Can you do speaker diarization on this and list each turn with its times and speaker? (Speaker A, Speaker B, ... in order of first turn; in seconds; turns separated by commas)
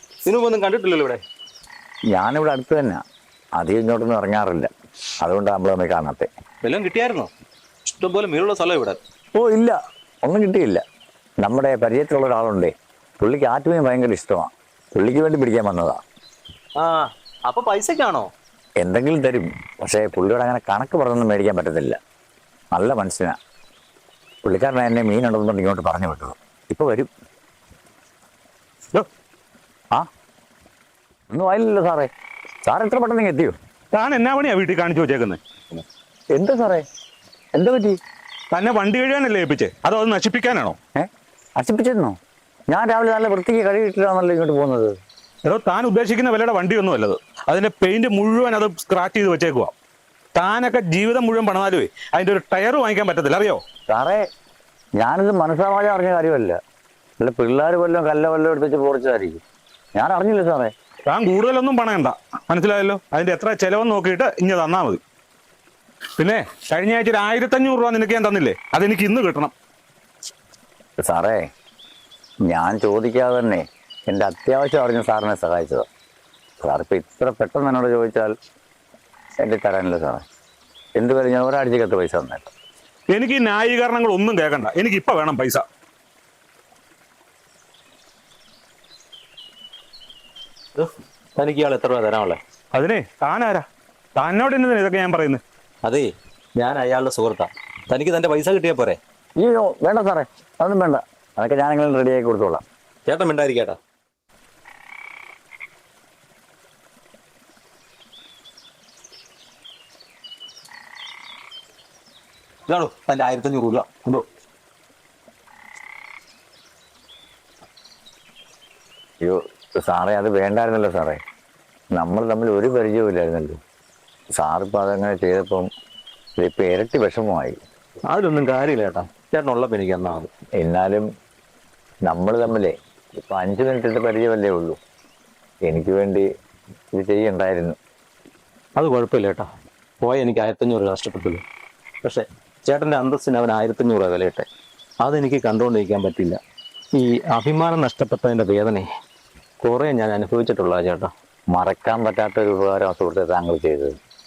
Speaker A: 0.2-1.2, Speaker B: 2.1-3.0, Speaker B: 3.5-6.3, Speaker A: 6.6-7.3, Speaker A: 7.9-9.0, Speaker B: 9.3-10.8, Speaker B: 11.4-16.0, Speaker A: 16.8-18.3, Speaker B: 18.8-22.0, Speaker B: 22.7-23.4, Speaker B: 24.4-27.1, Speaker B: 31.3-32.1, Speaker B: 32.6-33.5, Speaker C: 33.9-35.8, Speaker B: 36.3-36.8, Speaker B: 37.5-38.0, Speaker C: 38.5-40.8, Speaker B: 41.0-42.2, Speaker B: 42.7-45.0, Speaker C: 45.4-49.7, Speaker C: 50.3-53.6, Speaker B: 53.9-54.2, Speaker B: 55.0-56.6, Speaker B: 57.2-59.4, Speaker B: 59.9-60.7, Speaker C: 61.1-65.0, Speaker C: 66.2-69.5, Speaker B: 71.0-71.5, Speaker B: 72.4-75.9, Speaker B: 76.6-78.3, Speaker B: 79.4-80.2, Speaker B: 81.0-82.5, Speaker C: 83.1-85.6, Speaker A: 90.8-92.4, Speaker C: 92.7-95.4, Speaker A: 95.8-99.0, Speaker B: 99.4-102.6, Speaker A: 103.1-103.8, Speaker A: 112.7-114.2, Speaker B: 119.2-121.2, Speaker B: 121.9-123.6, Speaker B: 124.4-125.7, Speaker B: 126.4-127.6, Speaker A: 128.1-130.3, Speaker B: 130.6-131.1, Speaker B: 132.1-134.8, Speaker B: 135.7-136.3, Speaker B: 136.9-137.8, Speaker A: 138.8-139.5, Speaker A: 140.0-141.4, Speaker A: 142.0-144.5, Speaker A: 145.0-146.4, Speaker A: 146.9-148.9, Speaker A: 149.6-151.1, Speaker B: 151.5-153.9